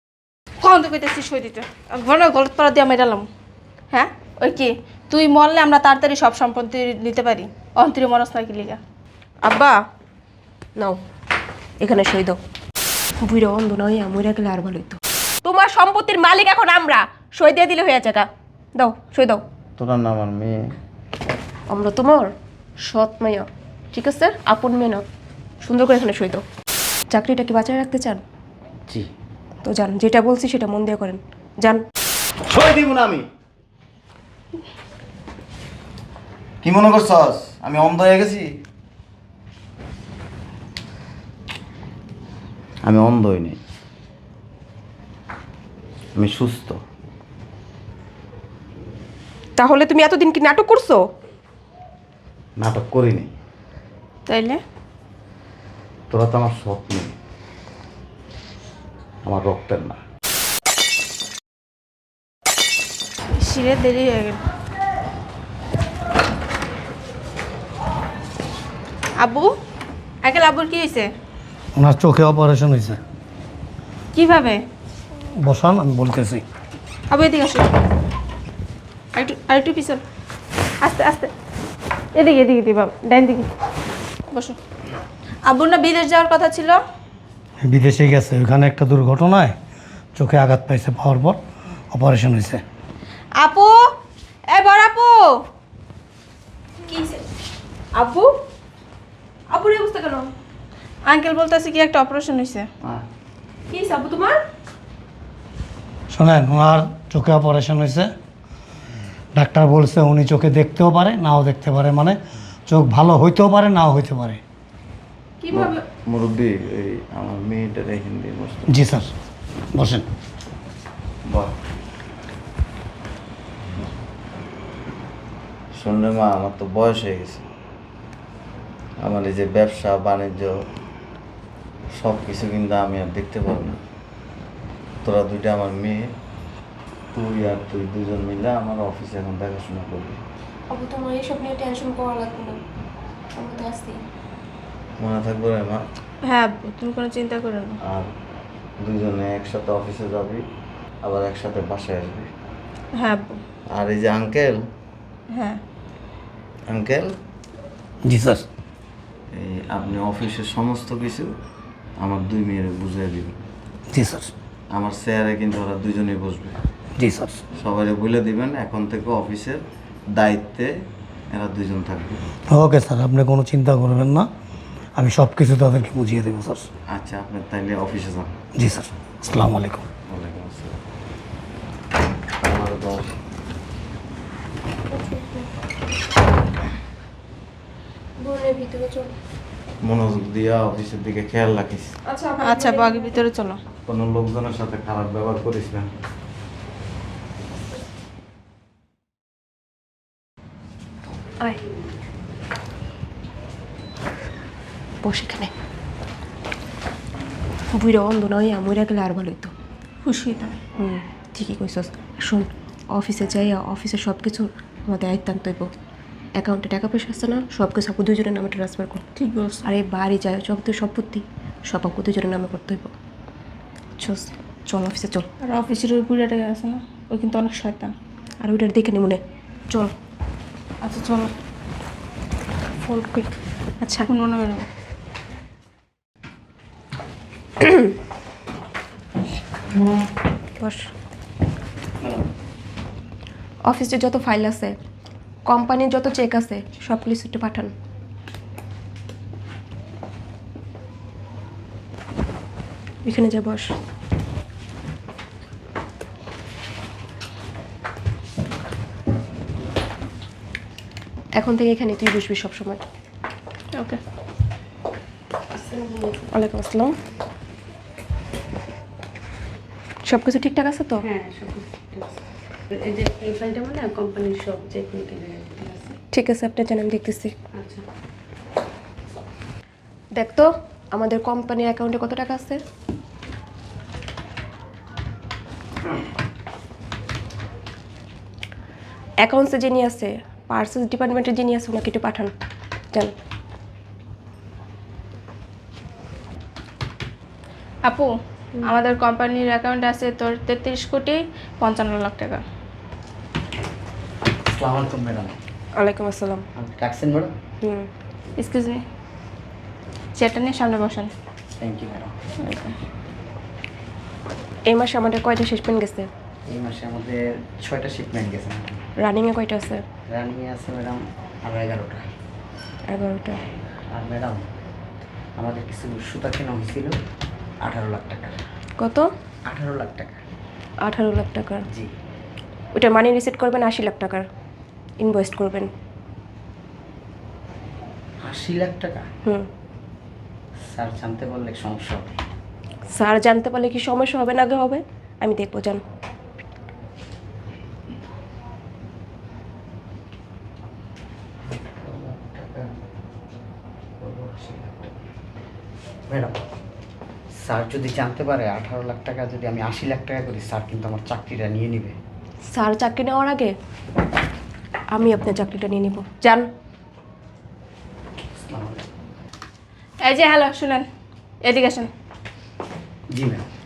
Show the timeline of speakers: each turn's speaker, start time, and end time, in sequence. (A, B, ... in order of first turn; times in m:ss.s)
0:00.6-0:03.3 A
0:03.9-0:08.8 A
0:09.4-0:09.8 B
0:11.8-0:12.4 B
0:13.2-0:19.4 B
0:19.8-0:20.6 C
0:21.7-0:25.0 B
0:25.6-0:26.4 B
0:27.1-0:28.2 B
0:29.6-0:31.8 B
0:32.4-0:33.3 C
0:36.6-0:38.6 C
0:42.8-0:43.6 C
0:46.2-0:46.8 C
0:49.6-0:51.1 B
0:52.6-0:53.3 C
0:54.3-0:54.6 A
0:56.1-0:57.1 C
0:59.2-1:00.0 C
1:03.3-1:04.4 A
1:09.2-1:09.5 A
1:10.2-1:11.1 A
1:11.8-1:13.0 D
1:14.1-1:14.6 A
1:15.4-1:16.4 D
1:17.1-1:17.7 A
1:19.1-1:20.0 A
1:20.8-1:21.3 A
1:22.2-1:23.5 A
1:24.3-1:24.6 A
1:25.5-1:26.8 A
1:27.6-1:29.6 D
1:30.2-1:31.4 D
1:31.9-1:32.6 D
1:33.4-1:33.9 A
1:34.5-1:35.4 A
1:36.8-1:37.2 B
1:37.9-1:38.3 B
1:39.5-1:40.3 B
1:41.0-1:42.7 A
1:43.7-1:44.4 B
1:46.1-1:48.1 D
1:49.3-1:54.4 D
1:55.4-1:55.8 B
1:55.5-1:58.7 C
1:58.7-1:59.1 D
1:59.7-2:00.0 D
2:01.3-2:01.5 C
2:05.7-2:07.4 C
2:09.0-2:10.7 C
2:11.9-2:13.8 C
2:15.0-2:16.1 C
2:17.1-2:20.2 C
2:20.7-2:22.6 B
2:23.3-2:24.0 B
2:25.0-2:25.8 C
2:26.2-2:27.8 A
2:27.8-2:28.1 C
2:28.8-2:30.4 C
2:31.0-2:32.3 C
2:32.9-2:33.4 A
2:33.7-2:34.7 C
2:35.3-2:35.6 A
2:36.7-2:37.2 C
2:38.0-2:38.4 D
2:39.3-2:41.4 C
2:42.0-2:43.4 C
2:43.9-2:44.3 D
2:44.7-2:46.6 C
2:47.0-2:47.4 D
2:47.5-2:50.7 C
2:51.3-2:52.2 C
2:52.5-2:54.3 D
2:55.0-2:56.7 D
2:56.9-2:58.4 C
2:58.5-2:59.8 D
3:00.0-3:00.8 C
3:02.4-3:03.2 C
3:04.9-3:05.5 B
3:08.2-3:09.1 B
3:09.8-3:12.0 C
3:12.1-3:13.2 B
3:12.4-3:13.6 A
3:13.8-3:15.9 C
3:25.0-3:25.5 B
3:27.7-3:29.5 B
3:30.0-3:30.6 A
3:30.8-3:35.7 B
3:36.4-3:39.0 B
3:39.2-3:39.7 A
3:39.6-3:42.9 B
3:44.0-3:45.3 B
3:45.4-3:47.9 A
3:48.4-3:49.9 B
3:50.8-3:51.3 A
3:52.8-3:54.1 B
3:54.0-3:54.7 A
3:57.6-3:57.9 B
4:00.6-4:00.9 B
4:03.7-4:04.8 B
4:05.4-4:07.7 B
4:13.0-4:13.7 B
4:21.3-4:22.8 B
4:25.6-4:26.2 E
4:26.3-4:27.0 B
4:30.1-4:31.0 B
4:31.0-4:32.2 E
4:32.7-4:36.0 E
4:36.1-4:37.4 B
4:37.5-4:37.8 E
4:40.1-4:42.6 B
4:49.2-4:52.3 B
4:58.6-5:02.4 A
5:04.5-5:05.4 F
5:05.8-5:06.4 B
5:06.6-5:07.3 F
5:07.6-5:07.9 B
5:08.4-5:08.8 A
5:10.1-5:11.1 A
5:11.6-5:12.2 F
5:12.4-5:12.7 A
5:14.7-5:16.1 B
5:16.5-5:18.8 F
5:19.0-5:19.8 B
5:20.1-5:22.1 F
5:22.9-5:23.4 B
5:23.9-5:24.4 F
5:25.4-5:27.0 F
5:27.6-5:28.4 F
5:28.8-5:29.1 B
5:29.5-5:30.2 F
5:30.8-5:31.6 B
5:32.7-5:34.2 B
5:35.0-5:35.7 B
5:38.2-5:39.0 F
5:40.7-5:42.1 F
5:42.9-5:45.8 B
5:51.5-5:52.7 F
5:54.0-5:55.0 F
5:56.1-5:56.4 F
5:57.4-6:02.0 F
6:02.5-6:03.6 B
6:04.9-6:06.5 B
6:08.3-6:08.9 F
6:10.0-6:10.9 A
6:11.4-6:11.9 A
6:13.1-6:13.4 F